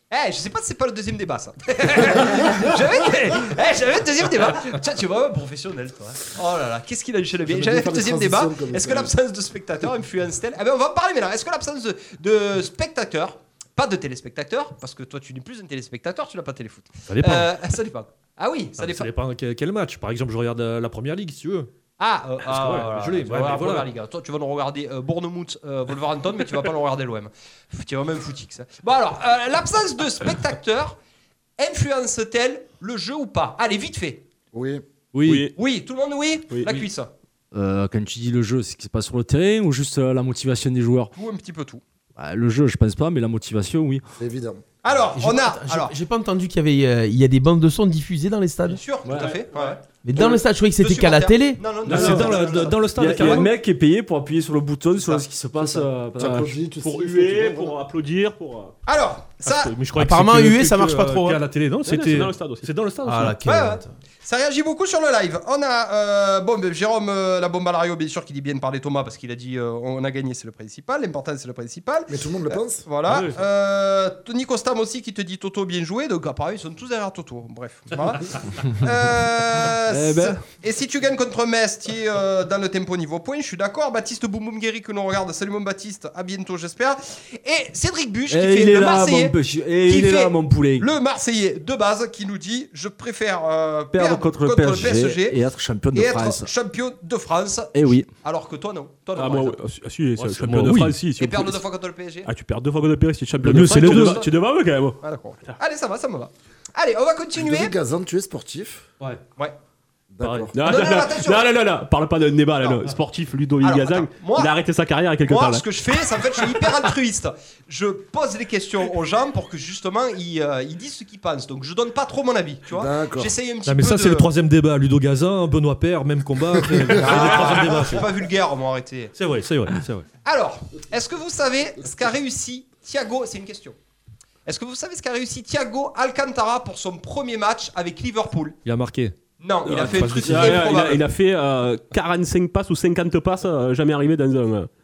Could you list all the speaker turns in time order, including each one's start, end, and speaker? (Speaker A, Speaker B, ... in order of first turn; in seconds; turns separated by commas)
Speaker A: 0.1-19.1, Speaker B: 7.4-9.1, Speaker C: 17.1-17.5, Speaker C: 18.8-21.7, Speaker A: 22.0-31.0, Speaker C: 22.5-23.9, Speaker A: 31.6-34.2, Speaker B: 34.5-34.8, Speaker C: 35.1-35.5, Speaker D: 35.2-35.5, Speaker A: 35.5-37.1, Speaker D: 36.5-36.9, Speaker E: 37.5-41.1, Speaker A: 41.1-41.8, Speaker E: 42.2-44.0, Speaker B: 44.2-44.6, Speaker A: 44.8-45.9, Speaker F: 45.1-48.8, Speaker A: 48.7-53.5, Speaker E: 49.0-49.4, Speaker F: 50.0-51.6, Speaker C: 51.9-53.5, Speaker E: 51.9-56.6, Speaker B: 55.5-57.8, Speaker D: 56.8-58.8, Speaker A: 58.9-59.8, Speaker C: 59.5-63.4, Speaker F: 60.0-61.4, Speaker D: 61.9-62.8, Speaker F: 63.0-63.9, Speaker A: 63.4-89.3, Speaker B: 72.1-72.9, Speaker E: 79.9-80.4, Speaker E: 88.3-90.9, Speaker A: 89.9-95.4, Speaker E: 93.9-96.5, Speaker A: 95.9-99.6, Speaker E: 97.7-98.1, Speaker D: 99.2-101.6, Speaker C: 100.2-101.1, Speaker A: 101.2-102.3, Speaker D: 102.2-105.6, Speaker C: 103.4-104.0, Speaker E: 103.5-104.2, Speaker A: 103.6-104.3, Speaker A: 105.0-107.7, Speaker B: 107.3-108.9, Speaker B: 110.1-110.5, Speaker C: 110.2-110.5, Speaker D: 110.5-115.7, Speaker A: 110.6-111.5, Speaker A: 113.6-114.5, Speaker A: 115.2-124.3, Speaker B: 122.7-123.3, Speaker C: 123.7-128.1, Speaker A: 126.9-129.1, Speaker C: 129.2-130.1, Speaker A: 130.2-133.8, Speaker A: 134.5-138.6, Speaker C: 138.7-139.2, Speaker A: 139.4-141.1, Speaker D: 139.7-144.7, Speaker C: 139.8-140.7